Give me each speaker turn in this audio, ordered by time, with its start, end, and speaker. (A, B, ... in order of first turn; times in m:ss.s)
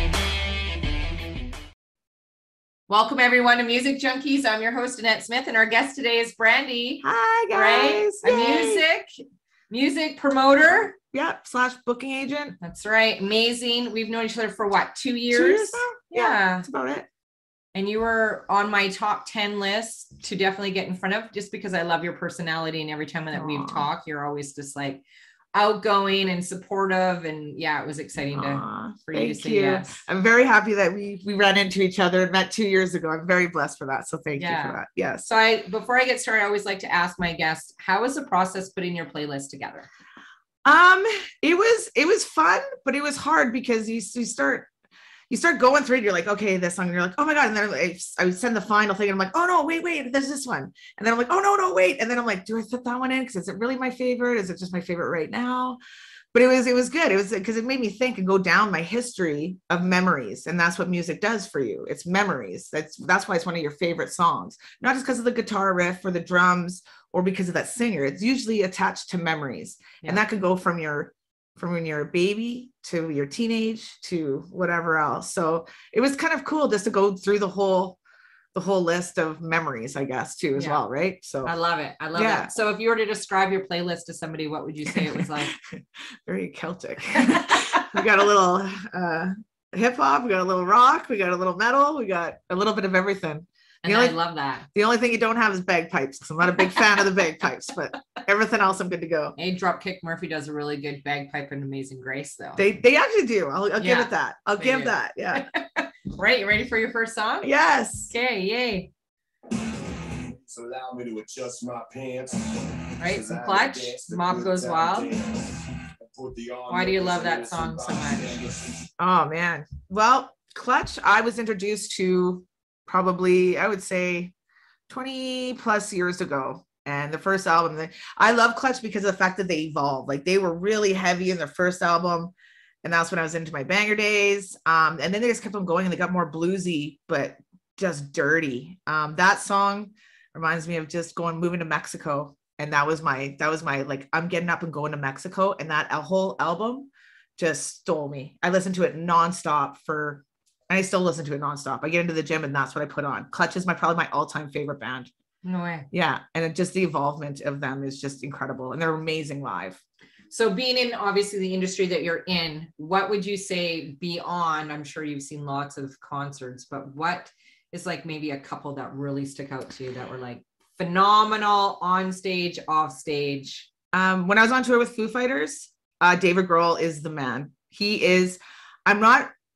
0:02.9-0:09.1 A
0:07.0-0:08.8 B
0:09.7-0:11.0 A
0:11.1-0:12.6 B
0:12.6-0:16.6 A
0:15.3-0:17.1 B
0:17.7-0:25.0 A
0:23.3-0:23.9 B
0:25.5-0:30.0 A
0:28.3-0:35.2 B
0:34.4-0:39.9 A
0:40.6-0:44.7 B
0:45.3-0:55.8 B
0:56.3-1:18.0 B
1:18.5-1:21.5 B
1:21.4-1:25.5 A
1:22.1-1:22.5 B
1:24.9-1:34.2 B
1:27.2-1:28.0 A
1:33.8-1:34.7 A
1:34.7-1:39.4 B
1:39.4-1:42.6 A
1:42.6-1:45.5 B
1:43.8-1:47.5 A
1:47.4-1:48.1 B
1:48.1-1:48.9 A
1:50.2-1:55.3 C
1:53.0-1:55.1 A
1:56.0-1:58.9 C
1:56.7-1:58.4 A
1:59.0-2:04.3 B
2:04.9-2:35.1 B
2:35.4-2:35.9 A
2:35.9-2:39.8 B
2:40.3-2:53.7 A
2:53.9-2:59.3 B